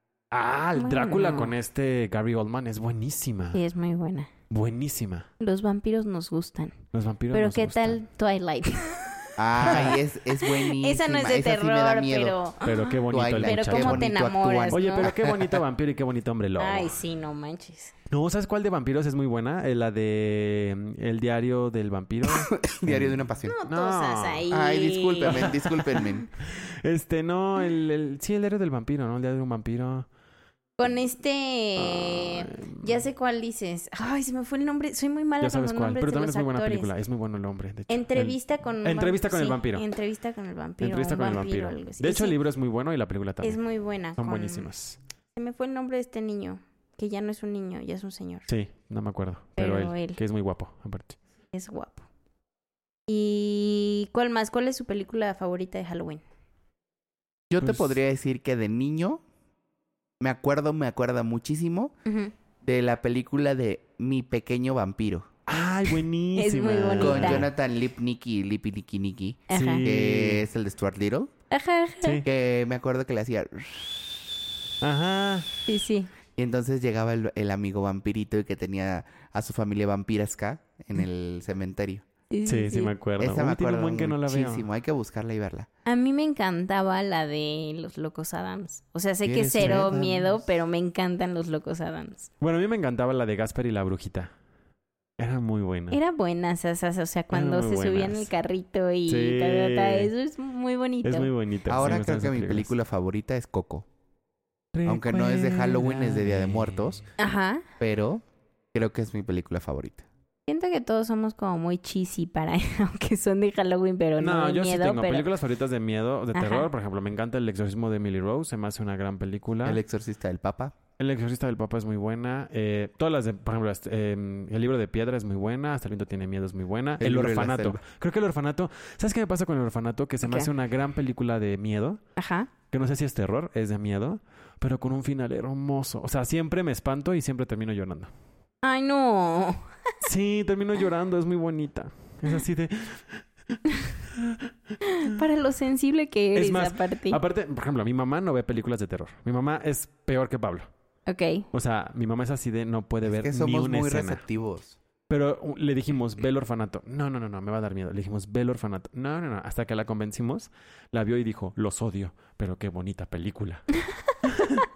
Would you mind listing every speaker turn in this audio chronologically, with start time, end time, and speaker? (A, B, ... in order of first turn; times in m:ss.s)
0:00.3-0:03.6 A
0:00.8-0:01.5 B
0:03.5-0:04.3 B
0:04.5-0:05.3 A
0:05.4-0:06.8 B
0:06.9-0:08.0 A
0:07.3-0:12.8 B
0:09.4-0:12.4 C
0:09.6-0:10.0 A
0:12.6-0:14.1 A
0:13.1-0:15.6 C
0:13.4-0:15.2 B
0:14.7-0:17.0 A
0:16.6-0:17.9 B
0:18.1-0:24.5 A
0:22.3-0:23.6 C
0:23.4-0:25.5 B
0:24.5-0:26.3 C
0:25.2-0:30.1 A
0:30.8-0:36.9 B
0:31.8-0:33.0 A
0:35.4-0:39.8 A
0:37.9-0:42.4 B
0:40.8-0:43.6 A
0:43.4-0:44.7 B
0:44.2-0:45.0 A
0:45.4-0:48.5 B
0:48.5-0:51.2 A
0:49.6-0:50.2 B
0:51.5-0:52.0 B
0:53.1-0:56.2 B
0:57.5-0:59.2 C
1:00.2-1:02.0 C
1:02.0-1:02.3 B
1:02.6-1:05.3 C
1:05.5-1:07.5 A
1:06.4-1:07.5 B
1:07.0-1:11.3 C
1:09.5-1:09.8 B
1:09.5-1:10.4 A
1:11.5-1:12.2 B
1:12.2-1:14.2 C
1:14.8-1:15.5 A
1:15.7-1:16.1 B
1:16.4-1:22.0 C
1:22.3-1:22.9 B
1:22.5-1:24.7 A
1:23.2-1:25.7 C
1:25.9-1:32.3 B
1:29.2-1:30.3 C
1:29.6-1:30.0 A
1:32.4-1:34.3 A
1:35.2-1:36.0 A
1:35.9-1:41.3 B
1:37.3-1:38.3 A
1:39.1-1:40.1 A
1:41.0-1:42.7 A
1:41.7-1:43.9 C
1:44.7-1:47.1 A
1:44.8-1:47.0 C
1:47.2-1:47.6 B
1:47.8-1:50.0 C
1:50.5-1:55.3 B
1:54.2-1:59.8 A
1:56.3-1:56.7 B
1:59.6-2:00.8 C
2:01.0-2:12.0 A
2:07.0-2:07.8 C
2:10.2-2:10.5 B
2:12.2-2:12.5 B
2:12.7-2:18.1 A
2:18.6-2:19.7 B
2:20.0-2:25.2 A
2:24.8-2:27.2 B
2:26.4-2:30.7 A
2:31.1-2:31.5 B
2:31.5-2:34.2 A
2:33.0-2:34.8 C
2:35.1-2:43.7 A
2:44.2-2:44.6 A